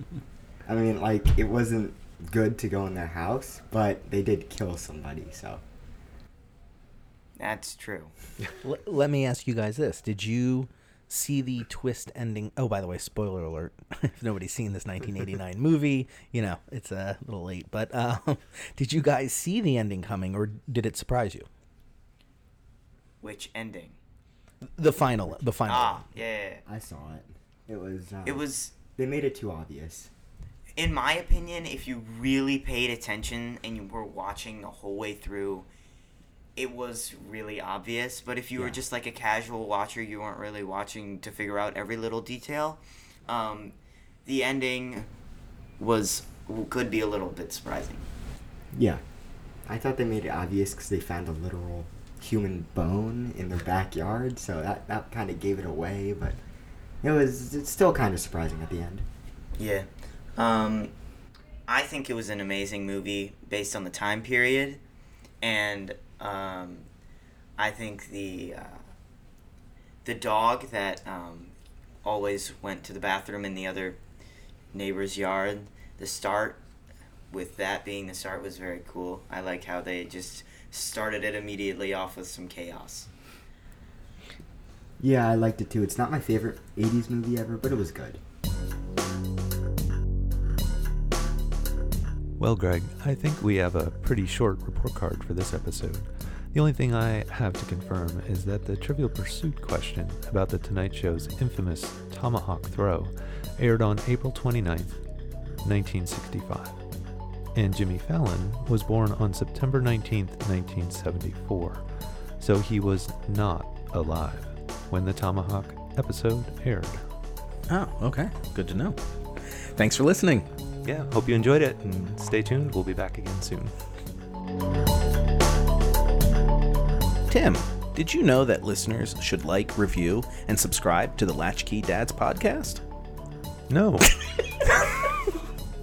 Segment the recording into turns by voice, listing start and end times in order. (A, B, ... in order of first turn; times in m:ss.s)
0:00.6-0:05.6 A
0:07.4-0:08.1 B
0:08.6-0:21.5 C
0:23.2-0:24.0 B
0:24.8-0:26.0 C
0:25.7-0:26.6 B
0:26.6-0:30.1 A
0:28.2-0:28.7 B
0:30.7-0:35.7 B
0:36.6-0:45.1 B
0:45.8-0:48.0 B
0:48.7-0:49.0 A
0:49.6-0:56.4 A
0:57.0-0:59.0 A
0:59.6-1:00.9 B
1:01.7-1:04.8 B
1:05.4-1:06.9 B
1:07.6-1:08.8 B
1:10.0-1:14.0 B
1:14.7-1:16.6 B
1:17.3-1:23.1 B
1:25.0-1:28.2 A
1:32.4-1:45.0 D
1:45.6-1:46.8 D
1:47.5-1:51.8 D
1:52.4-1:57.0 D
1:57.7-2:00.5 C
2:00.8-2:03.7 D
2:07.3-2:12.8 C
2:13.7-2:14.1 D